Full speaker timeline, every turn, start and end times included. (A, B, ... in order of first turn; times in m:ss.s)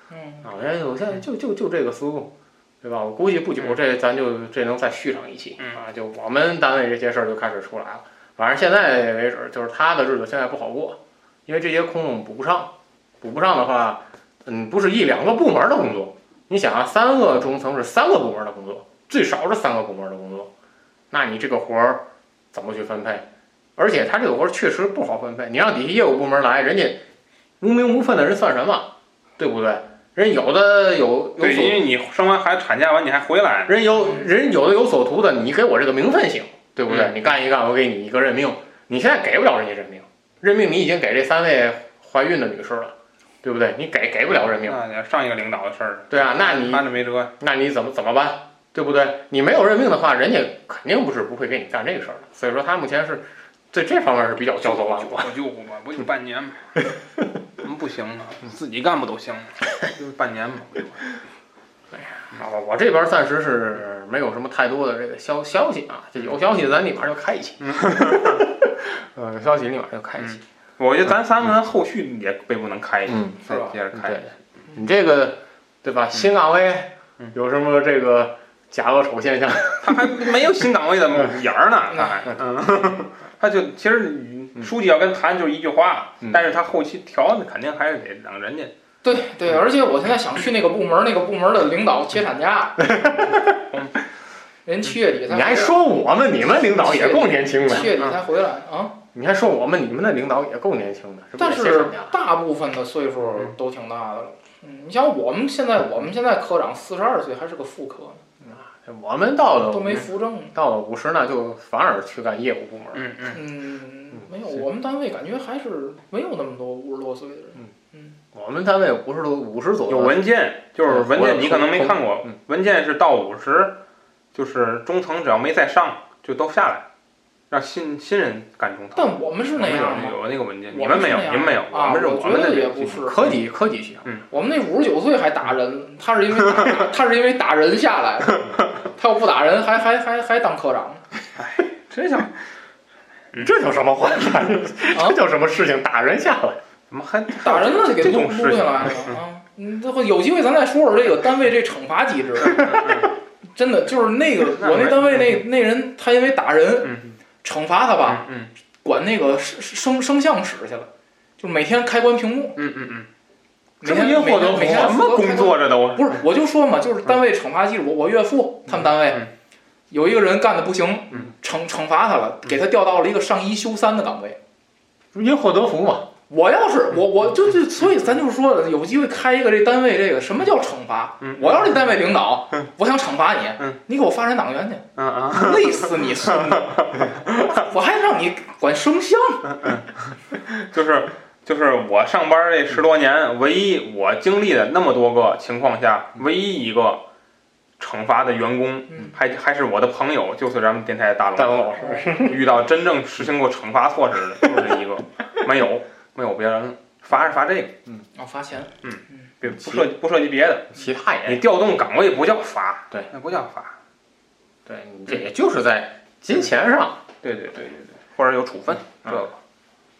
0:00.1-0:00.5 A
0:00.4-0:20.5 B
0:21.1-0:23.3 B
0:23.8-0:27.0 B
0:27.6-0:31.9 B
0:31.4-0:33.8 C
0:33.7-0:44.8 B
0:36.9-0:37.2 C
0:44.5-0:47.3 C
0:46.1-0:46.9 B
0:47.4-0:55.3 B
0:54.6-0:56.9 C
0:57.6-1:01.1 C
1:01.9-1:10.4 B
1:07.6-1:08.4 C
1:10.2-1:14.3 C
1:13.1-1:20.0 B
1:19.8-1:28.7 C
1:21.9-1:22.3 A
1:29.0-1:32.9 A
1:32.8-1:33.5 B
1:33.6-1:34.0 C
1:34.7-1:35.8 A
1:35.3-1:37.9 B
1:36.7-1:39.0 A
1:39.2-1:42.1 B
1:41.4-1:48.2 A
1:48.4-1:53.1 B
1:49.6-1:50.6 A
1:52.9-1:53.4 C
1:53.3-1:58.2 A
1:58.3-2:00.2 B
1:59.9-2:03.8 C
2:00.9-2:02.0 B
2:04.3-2:06.9 C
2:07.5-2:13.4 C
2:09.0-2:10.2 A
2:10.7-2:13.2 A
2:13.0-2:14.1 B
2:14.3-2:21.0 A
2:21.4-2:22.3 C
2:23.4-2:26.6 B
2:24.9-2:25.2 A
2:26.9-2:29.2 C
2:27.4-2:38.2 A
2:32.4-2:33.1 C
2:34.6-2:35.4 C
2:38.1-2:38.5 C
2:38.8-2:42.6 A
2:42.6-2:43.1 C
2:43.8-2:49.3 A
2:43.8-2:46.2 C
2:48.7-2:49.3 C
2:49.9-2:54.4 A
2:55.1-2:56.1 B
2:56.3-3:09.6 A
3:01.2-3:01.8 C
3:05.0-3:07.6 C
3:09.6-3:17.0 C
3:17.8-3:27.8 C
3:18.9-3:19.2 A
3:21.4-3:22.4 B
3:21.8-3:22.1 A
3:24.4-3:24.7 B
3:28.2-3:29.3 A
3:28.8-3:30.8 C
3:29.5-3:29.9 B
3:30.7-3:31.4 B
3:31.3-3:33.8 C
3:34.7-3:37.0 B
3:37.2-3:39.4 C